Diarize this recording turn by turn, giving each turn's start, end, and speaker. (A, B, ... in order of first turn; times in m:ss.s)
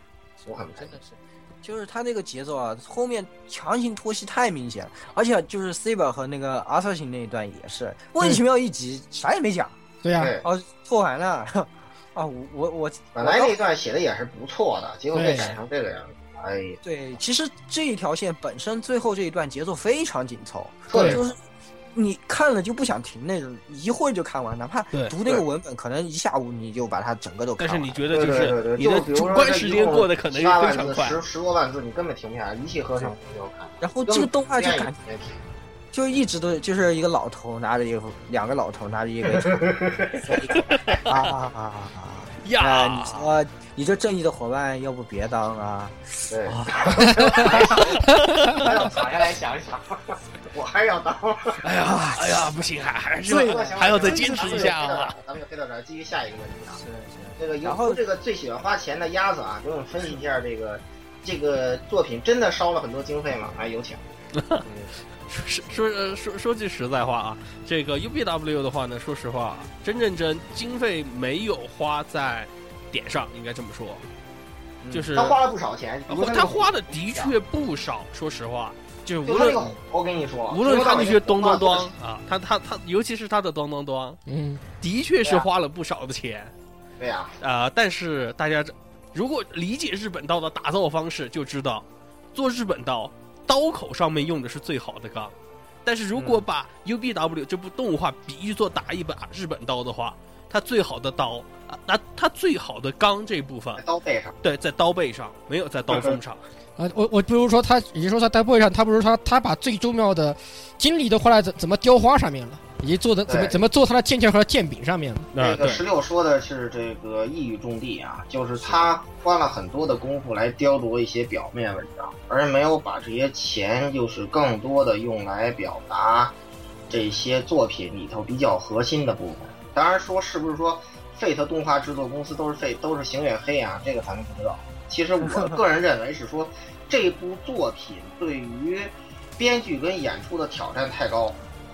0:00.4-0:09.8 A
0:00.4-0:01.0 B
0:10.0-0:10.3 C
0:10.2-0:10.4 B
0:10.4-0:13.6 A
0:13.1-0:16.8 B
0:15.1-0:15.6 C
0:16.8-0:21.4 A
0:20.9-0:21.3 B
0:21.9-0:28.0 A
0:24.9-0:25.2 D
0:27.6-0:31.2 D
0:28.1-0:35.4 B
0:33.8-0:35.0 A
0:35.9-0:39.6 A
0:39.4-0:40.4 B
0:40.2-0:47.8 A
0:40.6-0:41.0 D
0:42.4-0:43.3 D
0:46.3-0:51.6 B
0:51.6-0:55.1 D
0:51.8-0:52.6 A
0:53.2-0:54.8 A
0:53.3-0:56.8 B
0:56.7-0:58.0 A
0:57.4-1:04.0 B
1:04.4-1:04.6 D
1:05.3-1:14.0 D
1:14.8-1:15.2 A
1:14.9-1:15.4 D
1:15.1-1:17.3 B
1:16.1-1:19.7 D
1:19.2-1:21.9 B
1:20.5-1:24.2 D
1:24.2-1:24.6 C
1:24.8-1:26.5 D
1:27.0-1:27.3 B
1:27.4-1:35.3 D
1:35.8-1:43.8 D
1:43.8-1:44.3 B
1:44.4-1:46.4 D
1:45.9-1:46.2 B
1:46.8-1:55.3 C
1:53.3-1:53.6 B
1:55.3-1:55.8 D
1:55.3-2:06.3 B
1:58.6-1:58.9 A
2:06.9-2:21.4 B
2:15.2-2:15.6 A